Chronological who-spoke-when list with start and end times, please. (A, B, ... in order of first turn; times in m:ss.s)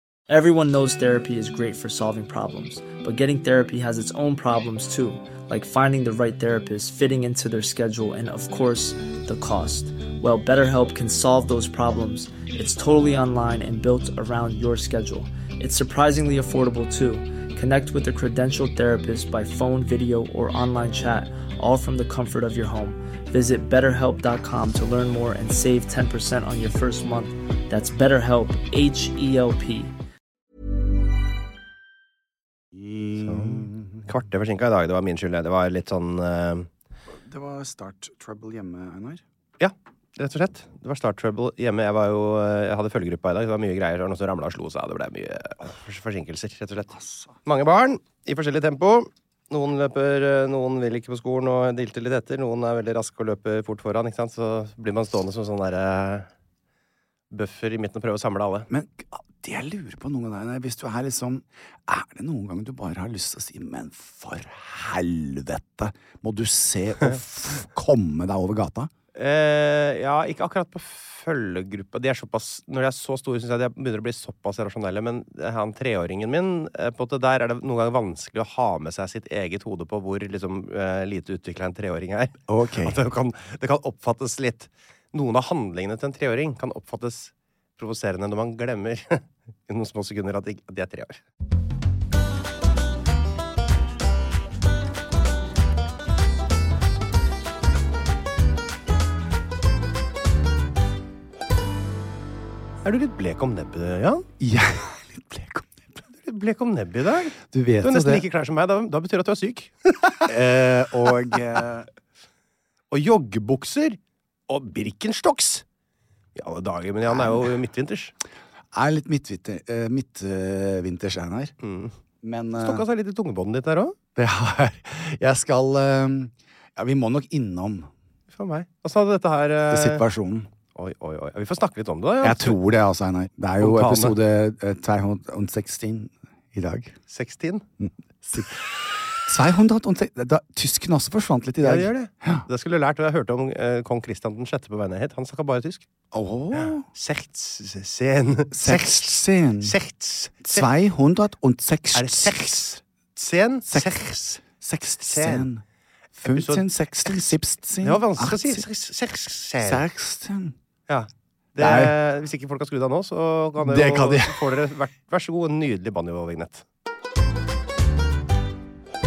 0:00.3-0:29.9 A
0:32.7-0:34.0 B
0:33.2-0:36.7 C
0:37.2-0:39.2 B
0:39.6-0:56.3 C
0:46.9-0:47.3 B
0:57.3-0:58.7 C
0:58.7-1:08.9 B
1:09.1-1:31.2 C
1:22.5-1:23.0 B
1:42.8-1:44.2 C
1:44.4-1:45.8 B
1:46.2-1:50.3 C
1:47.4-1:48.2 B
1:50.2-1:51.8 B
1:52.9-1:54.0 C
1:54.5-1:55.6 C
1:56.4-1:58.1 C
1:57.1-1:57.5 B
1:58.7-2:01.5 B
2:01.6-2:01.9 C
2:02.2-2:02.8 B
2:02.6-2:04.0 C
2:04.2-2:07.9 B
2:08.3-2:10.0 C
2:09.7-2:10.5 B
2:10.7-2:12.6 C
2:12.2-2:17.0 B
2:13.6-2:14.2 C
2:17.1-2:17.6 C
2:17.8-2:18.5 B
2:19.2-2:22.5 B
2:21.6-2:25.8 C
2:26.1-2:26.8 B
2:26.6-2:30.6 C
2:28.5-2:29.7 B
2:30.5-2:32.4 B
2:31.9-2:34.4 C
2:34.4-2:35.6 B
2:35.0-2:35.5 C
2:36.2-2:38.6 B
2:36.3-2:39.8 C
2:39.6-2:40.5 B
2:40.9-2:46.6 C
2:41.6-2:42.0 B
2:43.6-2:44.5 B